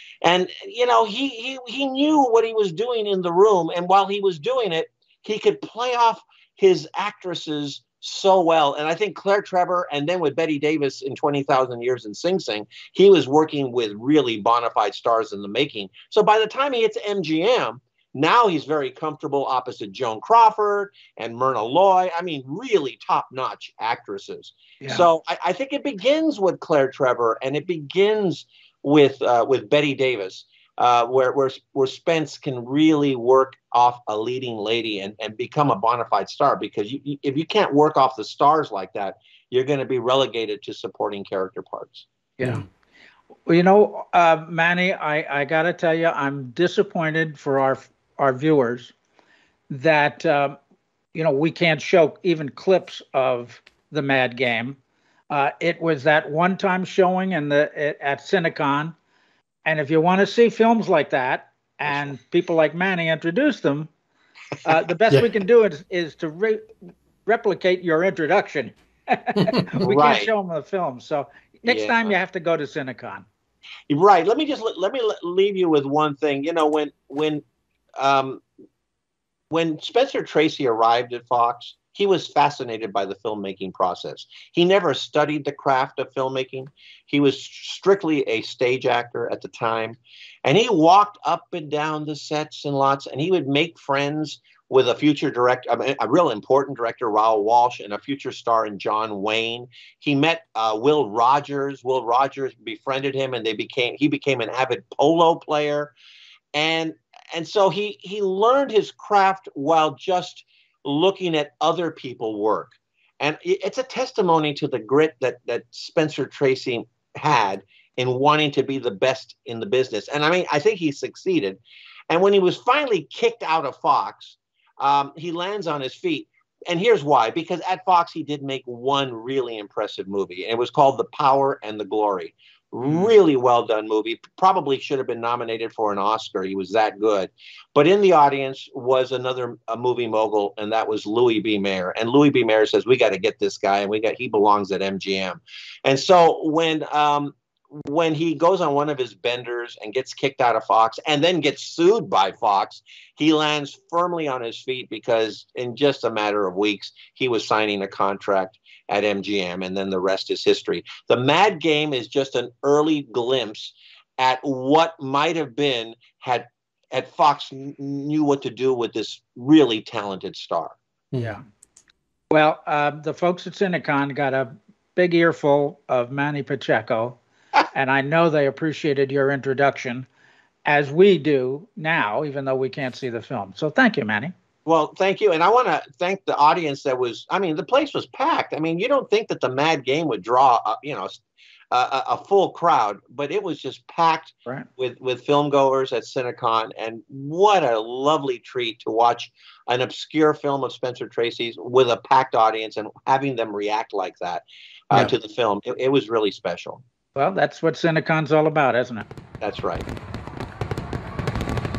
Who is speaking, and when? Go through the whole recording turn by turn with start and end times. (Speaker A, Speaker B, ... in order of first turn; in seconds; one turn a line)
Speaker A: 0.2-42.0
Speaker B: 24.8-25.1
Speaker B: 42.4-42.6
Speaker B: 43.5-48.9
Speaker B: 49.7-50.6
Speaker B: 51.1-54.8
Speaker B: 55.3-58.9
Speaker B: 59.6-63.9
Speaker A: 61.9-62.1
Speaker B: 64.6-66.6
Speaker B: 67.2-73.3
Speaker A: 69.8-70.3
Speaker A: 71.7-72.2
Speaker A: 73.9-77.4
Speaker A: 78.0-78.4
Speaker A: 79.5-105.9
Speaker A: 106.5-170.8
Speaker B: 132.8-133.1
Speaker B: 172.3-177.2
Speaker B: 177.7-180.1
Speaker B: 180.6-184.3
Speaker A: 184.7-191.2
Speaker A: 191.7-206.8
Speaker B: 207.1-209.1
Speaker A: 209.4-209.9